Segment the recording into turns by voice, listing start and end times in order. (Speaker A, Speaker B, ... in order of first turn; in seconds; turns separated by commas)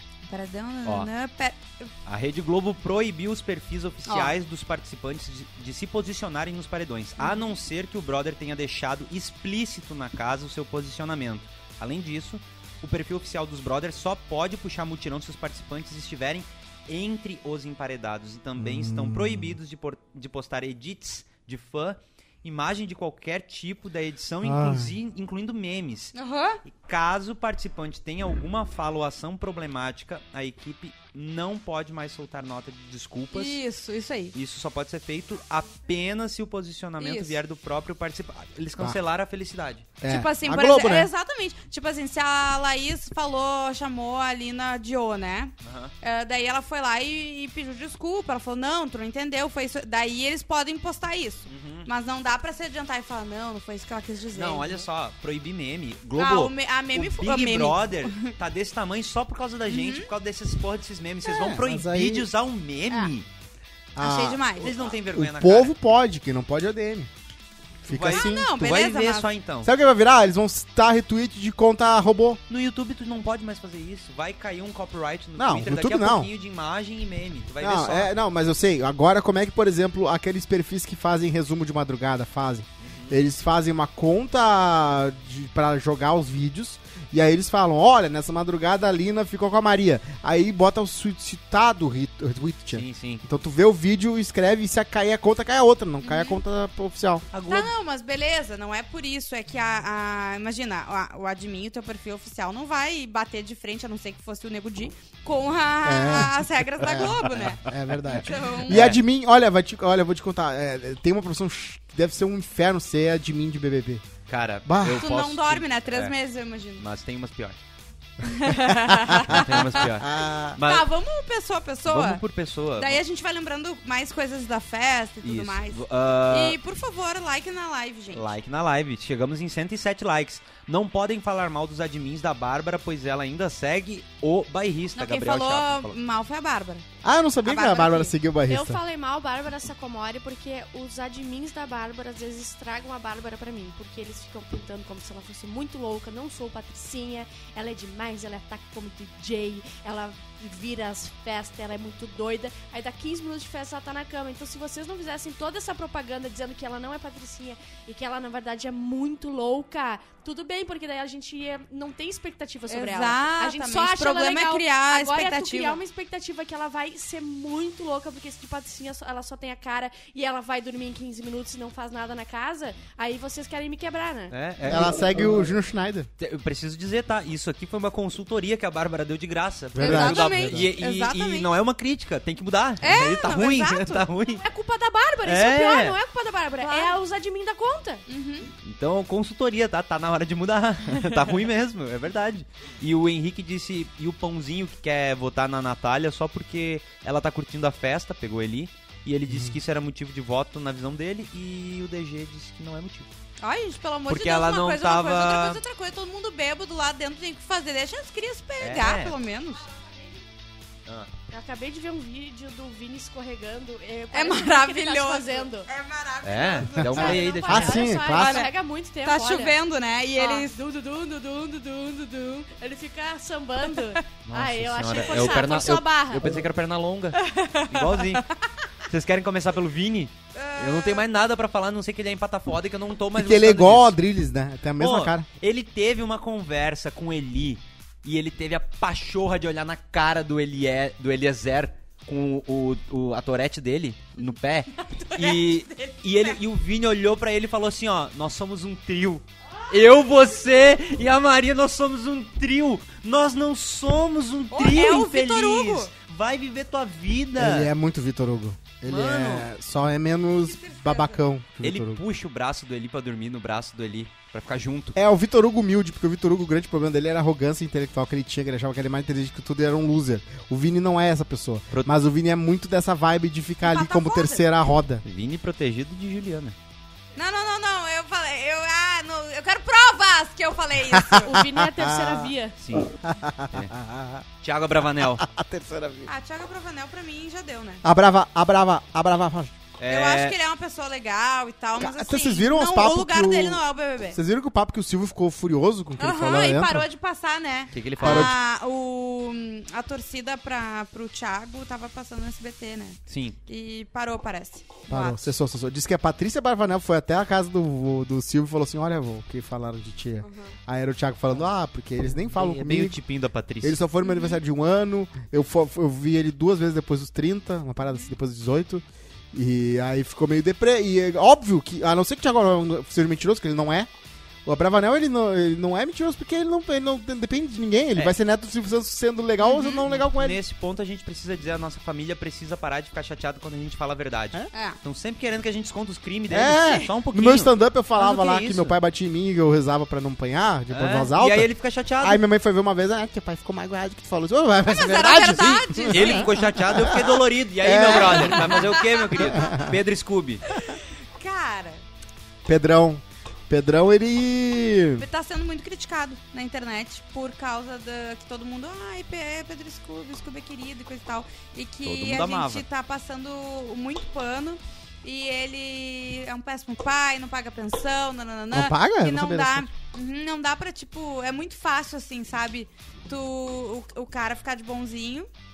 Speaker A: 0.3-1.9, Speaker B: 2.1-33.6, Speaker A: 4.1-4.3, Speaker A: 7.2-7.6, Speaker C: 18.6-19.6, Speaker C: 24.4-24.9, Speaker A: 26.1-26.6, Speaker A: 33.3-34.4, Speaker B: 34.4-39.9, Speaker A: 37.0-37.4, Speaker C: 40.0-41.1, Speaker A: 40.1-54.9, Speaker B: 45.6-45.9, Speaker B: 51.5-51.9, Speaker B: 54.3-63.3, Speaker A: 56.2-58.3, Speaker A: 59.7-60.1, Speaker C: 61.5-62.3, Speaker C: 64.0-67.1, Speaker A: 64.0-64.7, Speaker B: 64.6-65.7, Speaker B: 67.9-69.7, Speaker C: 67.9-68.5, Speaker A: 68.1-69.3, Speaker C: 69.6-72.4, Speaker B: 72.5-78.1, Speaker C: 75.4-76.3, Speaker C: 77.6-97.3, Speaker B: 82.8-83.2, Speaker B: 92.7-93.2, Speaker A: 96.0-96.4, Speaker B: 97.3-97.7, Speaker A: 97.5-108.8, Speaker C: 105.8-114.0, Speaker B: 108.7-109.0, Speaker B: 114.3-116.1, Speaker C: 114.7-115.0, Speaker A: 115.0-116.8, Speaker B: 116.8-117.6, Speaker A: 118.2-119.8, Speaker C: 118.8-120.6, Speaker B: 119.3-120.9, Speaker A: 120.6-122.2, Speaker B: 121.9-123.0, Speaker A: 122.8-128.3, Speaker B: 125.2-126.6, Speaker B: 128.1-135.9, Speaker A: 135.0-136.8, Speaker C: 137.0-138.8, Speaker A: 137.4-138.1, Speaker D: 138.5-174.4, Speaker A: 162.7-165.8, Speaker B: 174.3-175.3, Speaker C: 174.7-176.1, Speaker B: 176.2-184.4, Speaker C: 179.8-180.7, Speaker A: 179.8-181.5, Speaker A: 182.8-184.1, Speaker D: 184.4-188.1, Speaker B: 185.2-186.0, Speaker A: 186.6-187.0, Speaker A: 188.1-188.5, Speaker B: 188.6-203.1, Speaker C: 199.3-199.6, Speaker A: 203.4-209.7, Speaker B: 204.1-205.6, Speaker B: 208.6-209.2, Speaker B: 210.9-211.1, Speaker D: 211.3-215.7, Speaker A: 214.1-218.5, Speaker B: 216.2-217.9, Speaker C: 216.8-218.5, Speaker D: 217.0-219.6, Speaker A: 219.0-220.6, Speaker D: 220.2-226.3, Speaker A: 223.7-224.0, Speaker B: 224.3-228.2, Speaker A: 227.2-228.2, Speaker B: 228.9-234.0, Speaker A: 230.3-231.1, Speaker C: 233.2-235.3, Speaker B: 234.8-257.7, Speaker A: 244.7-246.4, Speaker A: 254.5-255.9, Speaker C: 257.4-262.0, Speaker B: 258.9-259.5, Speaker A: 260.4-261.2, Speaker B: 261.6-265.0, Speaker C: 264.9-275.0, Speaker A: 273.6-274.4, Speaker B: 275.1-276.6, Speaker A: 277.2-281.4, Speaker C: 280.9-284.2, Speaker D: 281.2-282.6, Speaker B: 282.6-282.9, Speaker B: 284.4-285.3, Speaker C: 285.0-286.1, Speaker A: 286.1-287.8, Speaker C: 287.8-289.6, Speaker B: 289.8-290.4, Speaker A: 289.9-294.2, Speaker C: 291.8-293.6, Speaker C: 294.1-296.9, Speaker A: 296.0-305.3, Speaker B: 297.7-298.4, Speaker C: 298.0-298.3, Speaker B: 303.1-303.4, Speaker C: 304.9-313.0, Speaker B: 312.3-313.8, Speaker C: 313.6-323.9, Speaker A: 314.0-314.4, Speaker C: 324.4-330.4, Speaker A: 329.4-329.8, Speaker B: 329.9-338.8, Speaker C: 336.3-349.8, Speaker B: 340.7-342.2, Speaker A: 344.7-346.3, Speaker B: 345.9-350.4, Speaker A: 347.9-349.7, Speaker A: 350.5-351.8, Speaker C: 352.4-355.1, Speaker A: 355.0-375.3, Speaker B: 361.9-362.6, Speaker C: 368.5-369.7